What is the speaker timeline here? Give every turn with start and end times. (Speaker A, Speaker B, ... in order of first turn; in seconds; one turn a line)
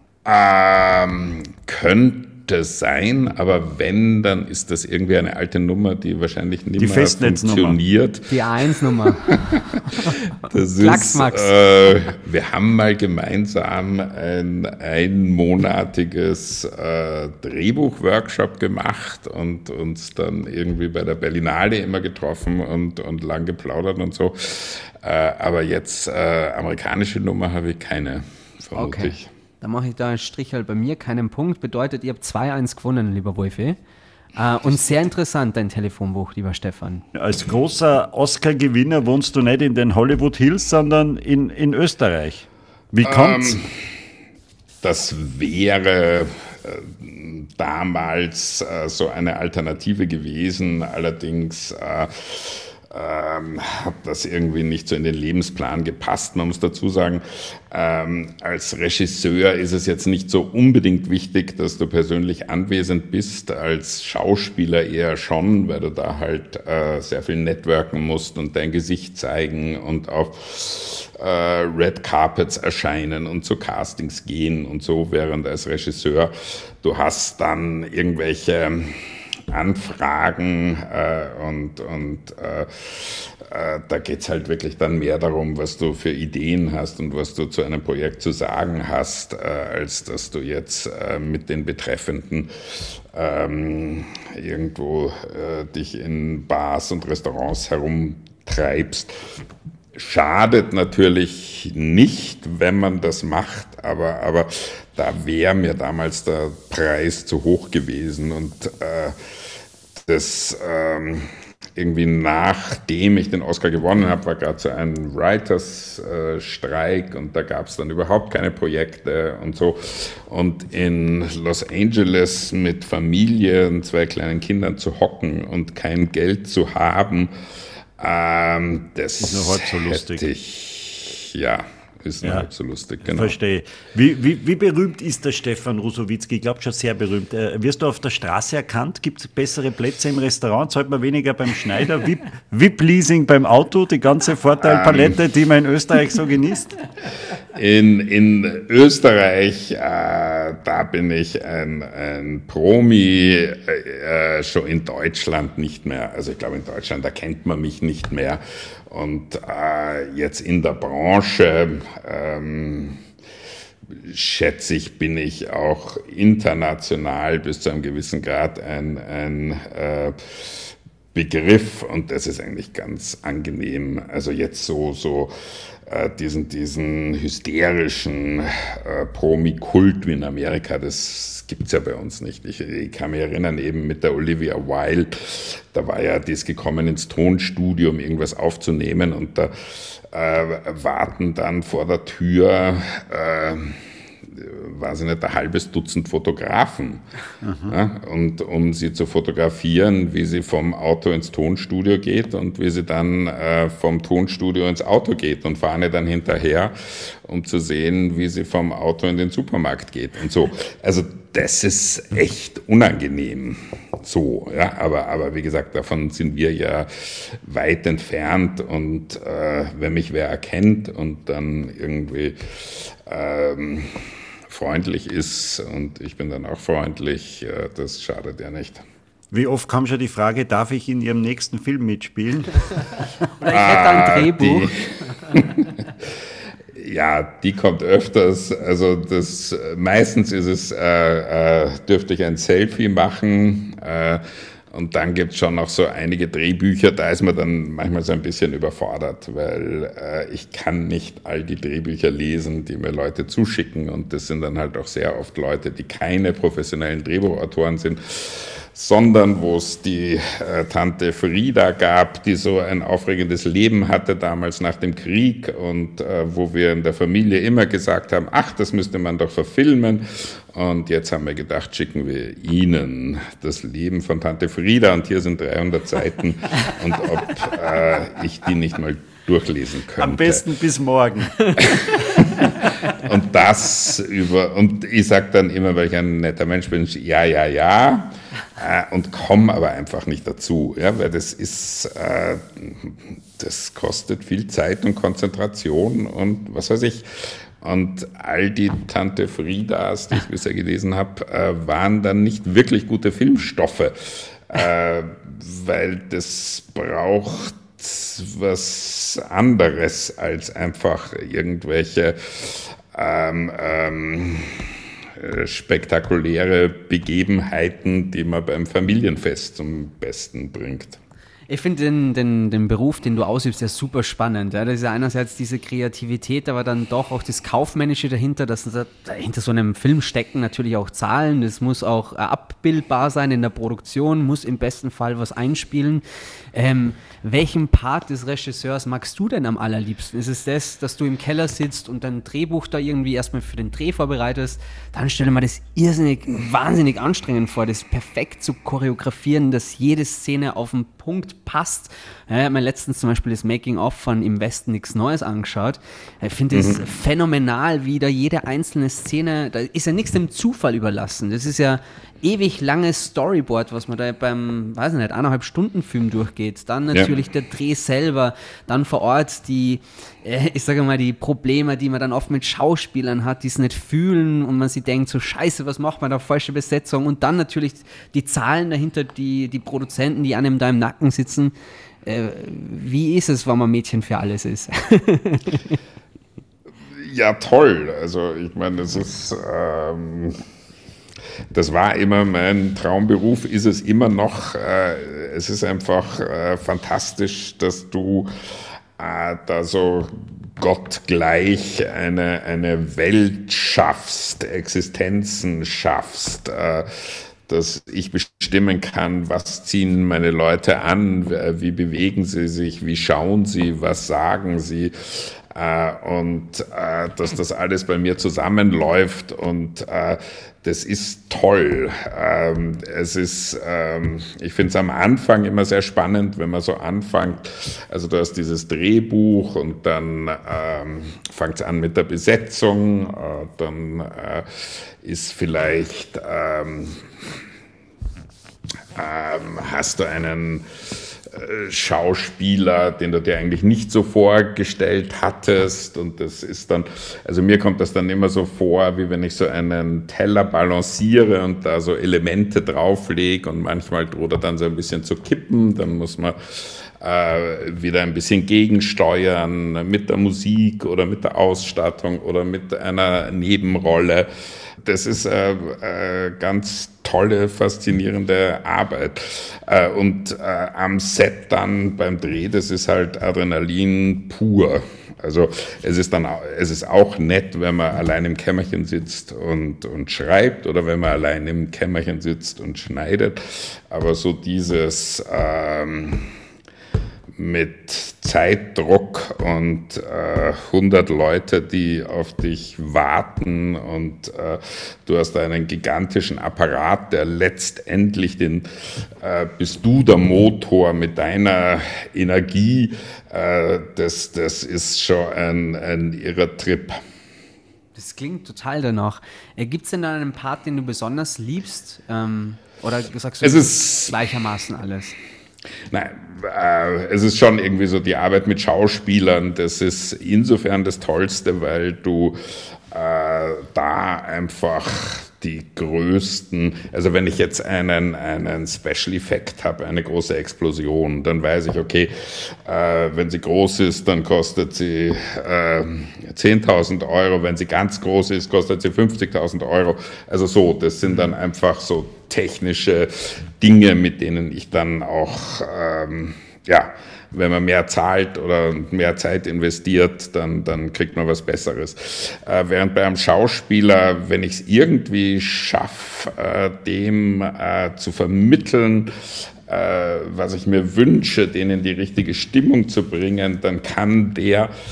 Speaker A: 0.3-29.3
Speaker B: 6.8-7.8
Speaker C: 8.3-9.4
Speaker C: 9.9-10.2
Speaker C: 10.8-11.5
Speaker C: 28.8-33.8
Speaker C: 34.4-37.0
Speaker B: 37.1-43.7
Speaker A: 43.0-43.7
Speaker A: 44.8-99.4
Speaker A: 100.0-109.2
Speaker A: 109.9-127.3
Speaker A: 128.0-133.3
Speaker B: 129.2-130.2
Speaker B: 132.2-132.5
Speaker B: 133.0-146.8
Speaker A: 144.6-145.2
Speaker A: 147.5-163.0
Speaker A: 163.9-175.3
Speaker A: 175.8-197.0
Speaker B: 197.4-197.8
Speaker A: 197.7-228.8
Speaker B: 229.3-232.8
Speaker C: 233.4-234.7
Speaker A: 233.5-236.2
Speaker A: 236.7-280.4
Speaker B: 280.0-281.7
Speaker A: 281.6-321.0
Speaker C: 321.5-381.5
Speaker A: 356.5-356.8
Speaker C: 382.1-385.8
Speaker A: 386.9-390.4
Speaker A: 391.5-398.3
Speaker A: 399.0-437.1
Speaker A: 439.0-464.3
Speaker A: 464.8-486.4
Speaker A: 487.4-507.0
Speaker C: 507.9-515.1
Speaker A: 513.4-514.2
Speaker A: 515.9-564.7